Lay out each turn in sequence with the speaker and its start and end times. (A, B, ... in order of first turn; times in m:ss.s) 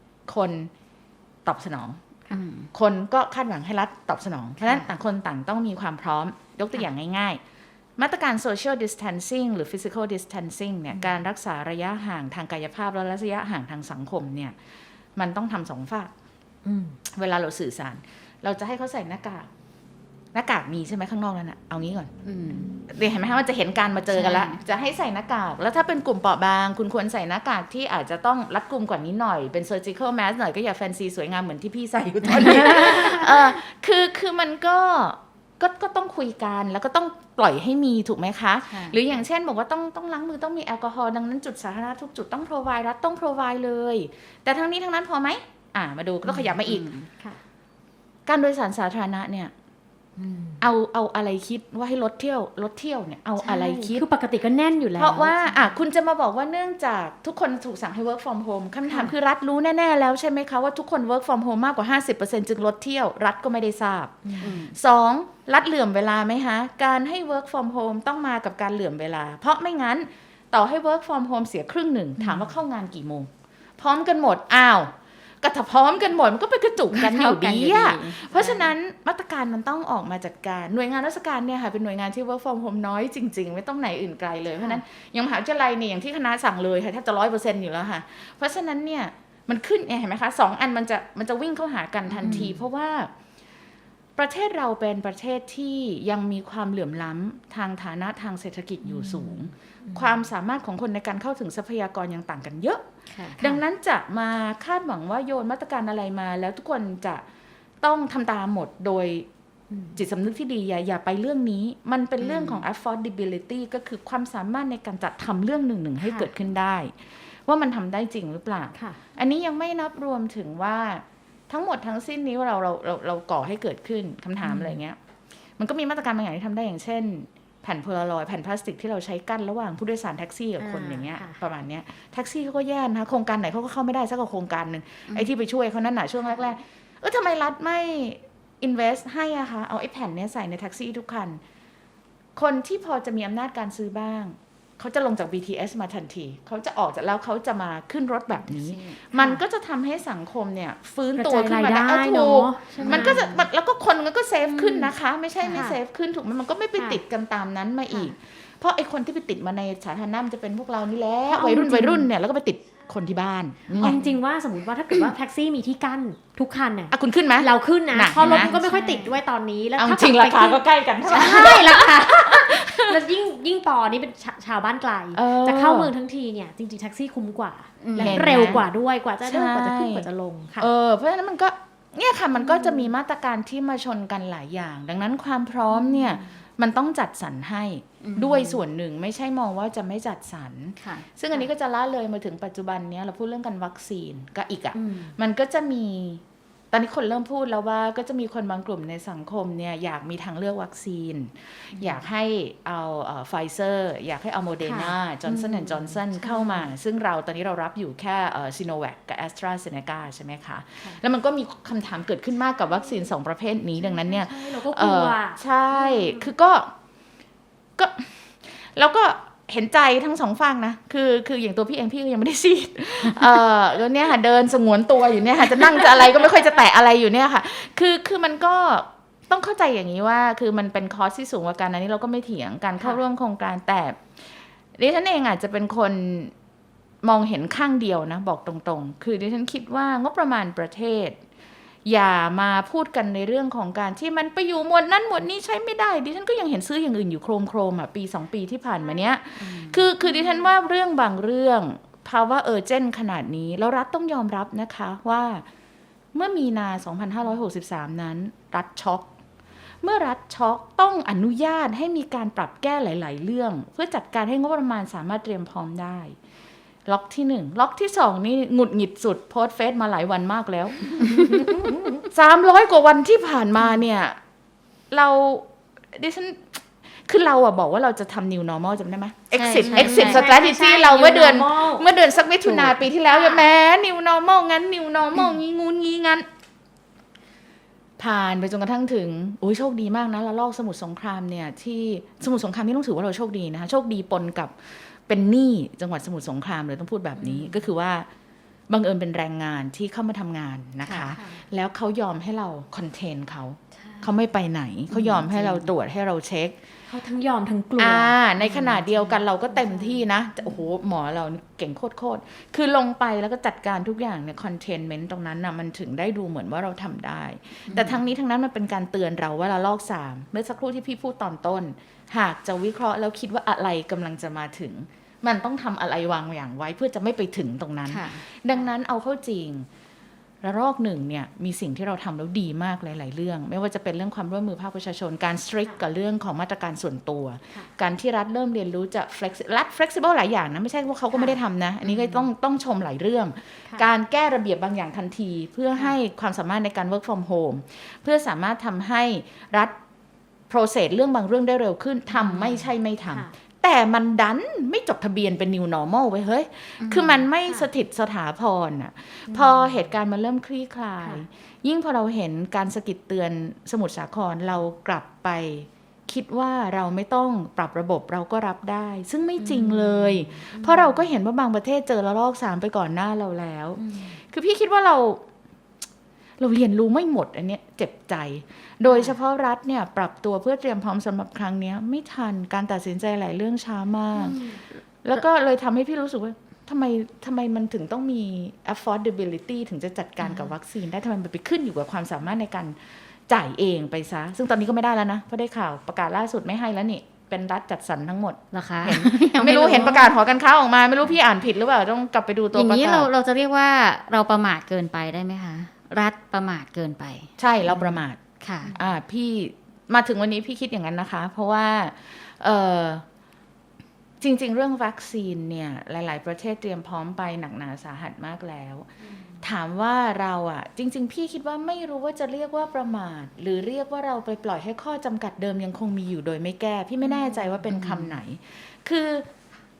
0:00.3-0:00.7 A
0:01.4-0:02.0 A
0:02.3-0:02.7 B
0:02.7-0:07.4 A
0:08.0-0:14.6 A
0:15.2-0:16.1 A
0:16.6-0:17.0 C
0:17.0-0:19.5 A
0:20.3-0:22.1 A
0:22.2-0:22.7 B
0:22.9-0:47.0 A
0:24.1-0:24.6 B
0:38.7-0:39.0 B
0:46.6-0:47.1 B
0:48.2-0:49.5 A
0:50.2-0:50.6 C
0:50.6-0:54.0 A
0:53.4-0:55.7 C
0:55.0-1:33.1 A
0:58.9-0:59.1 C
1:04.2-1:04.6 C
1:04.4-1:04.7 B
1:12.2-1:12.5 C
1:16.9-1:18.7 B
1:32.2-1:32.6 C
1:34.2-1:42.8 A
1:39.0-1:39.3 C
1:43.1-1:43.4 B
1:43.4-1:43.6 C
1:43.4-1:47.2 A
1:47.8-1:49.3 A
1:49.7-1:50.0 C
1:49.9-2:05.0 A
1:52.2-1:52.6 C
1:56.0-1:56.3 C
2:04.4-2:04.8 C
2:05.6-2:21.4 A
2:10.6-2:11.4 C
2:22.4-2:44.0 A
2:28.4-2:29.0 B
2:29.1-2:29.4 C
2:31.2-2:33.3 C
2:32.7-2:33.4 B
2:34.5-2:34.9 C
2:35.4-2:35.8 C
2:37.9-2:38.1 C
2:41.3-2:42.1 C
2:43.8-3:00.7 C
2:46.9-2:48.5 A
2:48.2-2:49.1 B
2:49.8-2:53.0 A
2:55.1-2:55.9 A
2:57.8-2:58.5 B
2:57.9-2:58.6 A
2:59.2-3:00.0 A
3:00.6-3:36.7 A
3:05.7-3:06.3 C
3:08.0-3:08.6 B
3:14.7-3:15.1 C
3:24.6-3:25.0 C
3:25.3-3:26.0 B
3:26.2-3:26.7 C
3:33.8-3:36.3 C
3:37.8-3:54.2 A
3:54.7-3:56.3 A
3:57.0-4:01.2 A
4:01.8-4:15.4 A
4:09.4-4:09.8 B
4:10.1-4:10.4 C
4:16.1-4:19.1 A
4:19.8-4:26.2 A
4:26.9-4:34.2 A
4:34.9-4:46.2 A
4:39.3-4:40.2 B
4:39.6-4:41.9 C
4:42.4-4:42.8 B
4:43.1-4:43.5 C
4:48.0-4:58.1 A
4:57.2-4:57.5 C
4:58.7-5:06.6 A
5:00.9-5:01.4 C
5:04.9-5:05.7 C
5:06.9-5:10.0 C
5:07.8-5:29.7 A
5:17.7-5:17.9 B
5:27.9-5:28.2 B
5:30.4-5:49.7 A
5:41.1-5:42.2 C
5:50.5-6:15.2 A
5:52.1-5:53.3 C
5:56.8-5:57.3 B
5:59.3-5:59.8 C
6:09.4-6:11.1 C
6:13.8-6:14.2 C
6:16.4-6:32.8 A
6:18.8-6:19.1 C
6:24.2-6:24.6 C
6:33.3-6:43.1 A
6:38.5-6:40.2 B
6:42.5-6:48.7 B
6:47.4-6:48.2 A
6:48.6-6:48.9 C
6:48.7-6:53.0 A
6:54.2-6:58.9 A
6:59.4-7:09.2 A
7:07.0-7:07.6 C
7:07.7-7:08.2 B